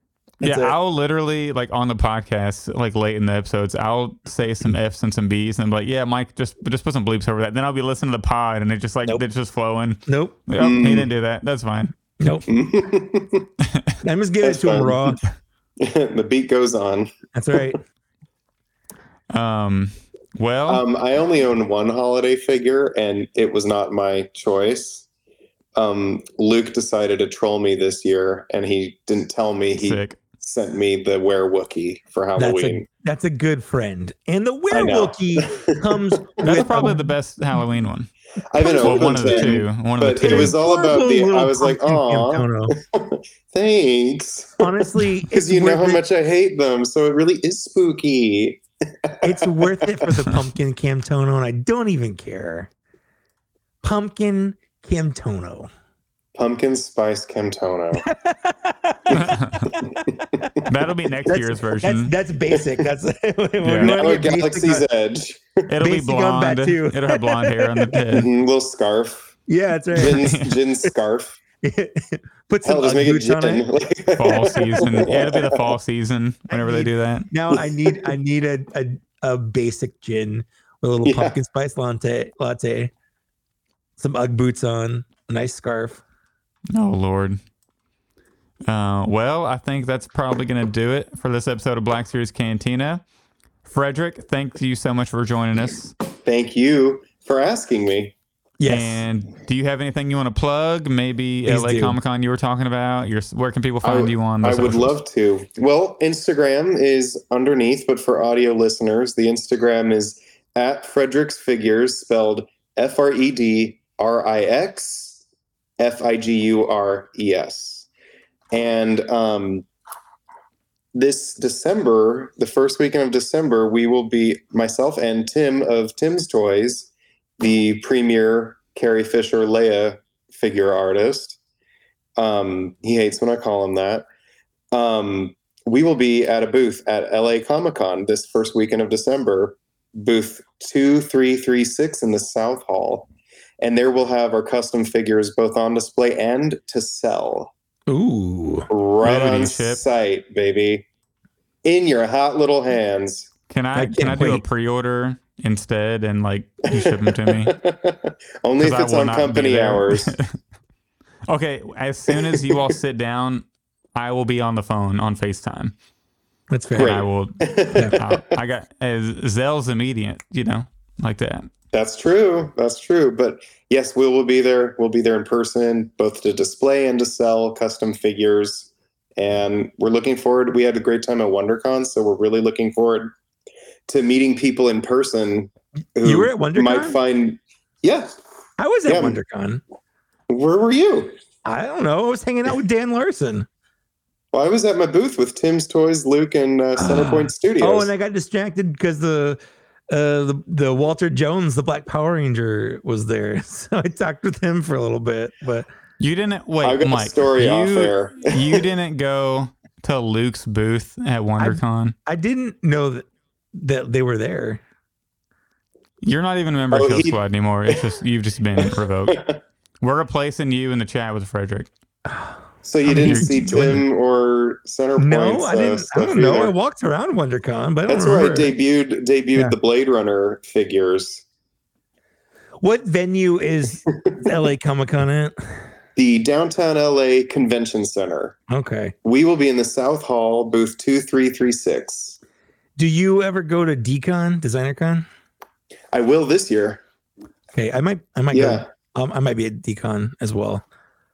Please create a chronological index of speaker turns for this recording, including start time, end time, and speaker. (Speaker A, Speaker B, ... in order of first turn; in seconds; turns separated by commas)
Speaker A: 0.4-11.9, Speaker B: 0.4-0.8, Speaker B: 10.1-10.4, Speaker C: 10.6-11.1, Speaker B: 12.2-12.5, Speaker C: 12.5-13.5, Speaker B: 14.0-15.2, Speaker C: 14.4-15.2, Speaker C: 15.8-17.6, Speaker B: 17.3-17.8, Speaker A: 19.3-20.8, Speaker C: 20.7-25.1, Speaker C: 25.8-32.9, Speaker A: 29.7-30.2, Speaker B: 32.4-37.1, Speaker C: 34.7-36.0, Speaker A: 36.4-38.1, Speaker C: 38.5-50.1, Speaker B: 38.6-39.5, Speaker A: 38.8-40.5, Speaker B: 40.2-42.8, Speaker B: 44.6-46.0, Speaker B: 49.2-52.7, Speaker B: 53.8-55.7, Speaker C: 56.4-58.0, Speaker B: 58.0-60.5, Speaker C: 59.1-59.3, Speaker A: 59.1-59.7, Speaker C: 59.9-60.4, Speaker A: 60.6-62.1, Speaker B: 61.3-64.9, Speaker C: 62.5-62.9, Speaker A: 63.6-64.0, Speaker C: 63.8-65.7, Speaker A: 65.7-68.3, Speaker B: 65.8-68.0, Speaker C: 68.1-69.3, Speaker B: 69.5-70.4, Speaker C: 69.9-71.4, Speaker A: 70.0-70.6, Speaker B: 71.6-73.6, Speaker C: 72.6-75.7, Speaker A: 74.2-77.3, Speaker B: 74.8-75.2, Speaker B: 76.5-82.9, Speaker C: 77.6-78.1, Speaker C: 81.0-81.4, Speaker B: 84.0-86.0, Speaker A: 86.7-87.4, Speaker A: 88.7-93.0, Speaker A: 93.7-95.9, Speaker C: 96.2-98.2, Speaker B: 98.6-99.0, Speaker A: 98.7-104.9, Speaker B: 101.5-102.0, Speaker C: 103.8-115.2, Speaker C: 115.8-117.9, Speaker C: 118.5-119.7, Speaker C: 120.9-131.4, Speaker C: 132.2-134.1, Speaker C: 134.7-143.1, Speaker C: 143.6-147.5, Speaker B: 147.9-148.7, Speaker C: 148.7-150.9, Speaker A: 149.0-149.8, Speaker C: 151.7-153.3, Speaker A: 153.5-157.6, Speaker B: 153.8-154.4, Speaker C: 156.7-160.1, Speaker A: 158.6-160.3, Speaker A: 161.3-165.7, Speaker C: 162.1-162.8, Speaker B: 166.5-167.0, Speaker A: 166.7-171.5, Speaker C: 166.8-168.3, Speaker C: 171.7-183.1, Speaker C: 183.9-188.2, Speaker B: 186.0-187.0, Speaker B: 188.6-189.6, Speaker C: 188.9-189.2, Speaker C: 190.3-191.2, Speaker B: 191.4-193.5, Speaker C: 194.3-197.9, Speaker B: 196.8-199.4, Speaker B: 199.9-205.7, Speaker A: 206.0-211.9, Speaker C: 206.6-208.7, Speaker B: 211.4-214.6, Speaker A: 216.0-219.3, Speaker C: 216.7-217.8, Speaker C: 218.7-219.4, Speaker A: 219.8-221.7, Speaker B: 222.1-223.7, Speaker C: 222.6-226.6, Speaker A: 223.0-223.8, Speaker B: 225.0-228.5, Speaker C: 227.9-231.2, Speaker B: 232.6-235.6, Speaker C: 236.0-238.4, Speaker B: 238.5-238.9, Speaker C: 239.0-242.2, Speaker B: 242.8-245.1, Speaker C: 245.9-246.8, Speaker B: 247.5-250.7, Speaker C: 248.3-248.7